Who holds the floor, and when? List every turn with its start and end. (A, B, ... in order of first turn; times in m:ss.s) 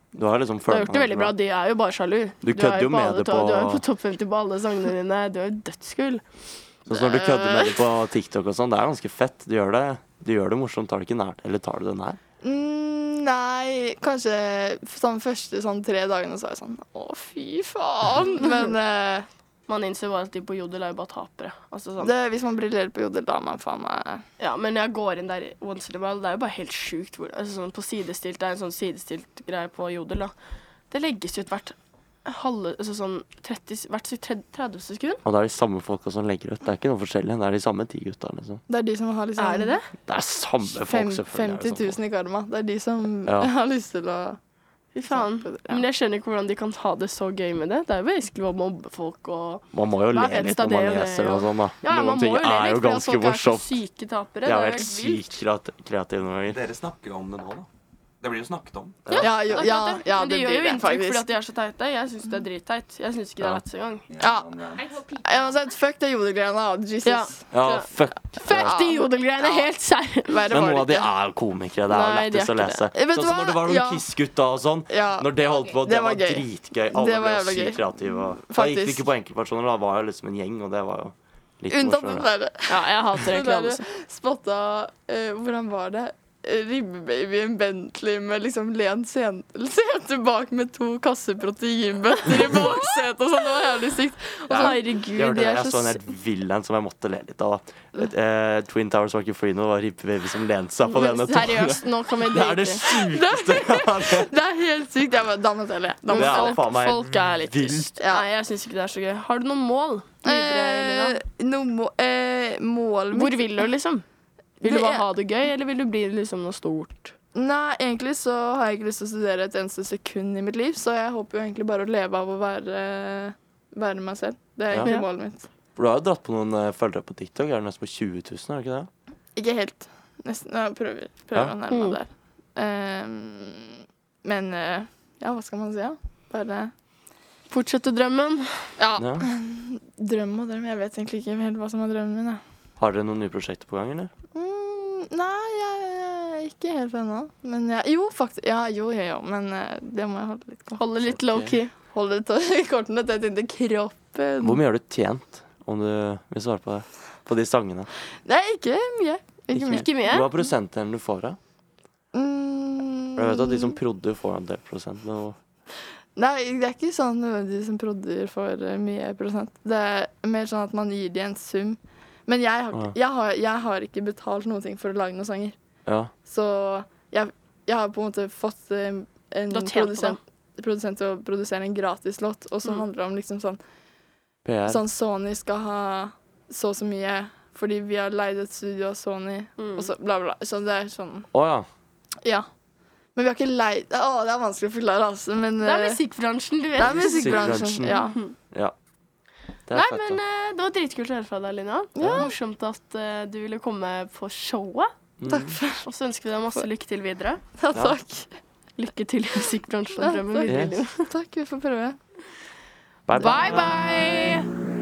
0:00.1-0:01.3 A
0:00.7-0:06.2 B
0:02.4-0:03.8 A
0:06.9-0:12.2 A
0:06.9-0:07.9 C
0:12.4-0:19.3 C
0:19.7-0:22.1 B
0:22.0-0:24.2 C
0:24.4-0:30.3 B
0:30.9-0:35.2 B
0:35.2-0:38.6 A
0:38.7-0:39.8 C
0:39.4-0:39.9 B
0:40.1-0:42.0 A
0:40.7-0:44.4 C
0:43.3-0:43.5 A
0:45.0-0:55.2 B
0:45.1-0:45.8 C
0:49.7-0:53.7 A
0:54.4-0:56.6 A
0:56.5-0:57.7 D
0:58.2-0:59.1 D
0:59.1-0:59.4 A
0:59.1-1:04.1 B
0:59.2-1:01.3 C
1:04.1-1:04.8 D
1:04.2-1:07.5 C
1:07.0-1:10.5 B
1:07.5-1:08.8 A
1:08.3-1:09.7 C
1:10.3-1:11.1 C
1:10.5-1:22.3 A
1:11.9-1:12.9 B
1:12.9-1:13.8 C
1:13.7-1:14.0 B
1:14.9-1:19.1 C
1:21.7-1:34.8 C
1:22.7-1:23.9 B
1:32.3-1:32.8 B
1:34.5-1:44.3 A
1:34.6-1:36.0 B
1:40.9-1:42.9 B
1:43.0-1:46.7 C
1:46.0-1:51.2 B
1:46.1-1:47.9 A
1:48.0-1:48.3 C
1:50.2-1:53.6 C
1:53.1-1:54.0 B
1:54.6-1:57.1 B
1:54.6-1:55.0 C
1:57.4-2:05.5 C
2:05.8-2:08.9 A
2:09.4-2:16.7 C
2:11.7-2:12.0 B
2:17.5-2:18.5 B
2:18.8-2:22.4 C
2:19.0-2:19.3 A
2:22.8-2:24.1 A
2:24.4-2:30.8 C
2:30.8-2:31.7 B
2:31.1-2:31.6 A
2:31.9-2:34.6 C
2:34.4-2:37.9 A
2:38.2-2:39.9 C
2:39.5-2:41.4 A
2:39.7-2:40.3 B
2:42.1-2:43.8 C
2:43.2-2:45.4 A
2:46.2-2:55.6 C
2:55.9-2:56.1 A
2:56.2-3:03.6 C
2:59.5-3:00.2 B
3:04.4-3:04.8 A
3:04.7-3:11.3 C
3:09.6-3:09.9 B
3:11.3-3:11.7 A
3:13.2-3:16.0 C
3:15.6-3:18.3 B
3:16.8-3:18.2 C
3:17.1-3:18.0 A
3:19.7-3:20.2 A
3:19.7-3:24.9 B
3:22.0-3:22.3 C
3:22.0-3:22.3 A
3:25.2-3:25.6 A
3:25.3-3:25.8 C
3:25.8-3:27.4 B
3:27.6-3:28.3 C
3:27.7-3:28.0 A
3:28.8-3:31.1 B
3:29.9-3:32.0 C
3:30.5-3:30.8 A
3:33.1-3:33.8 A
3:33.1-3:34.5 B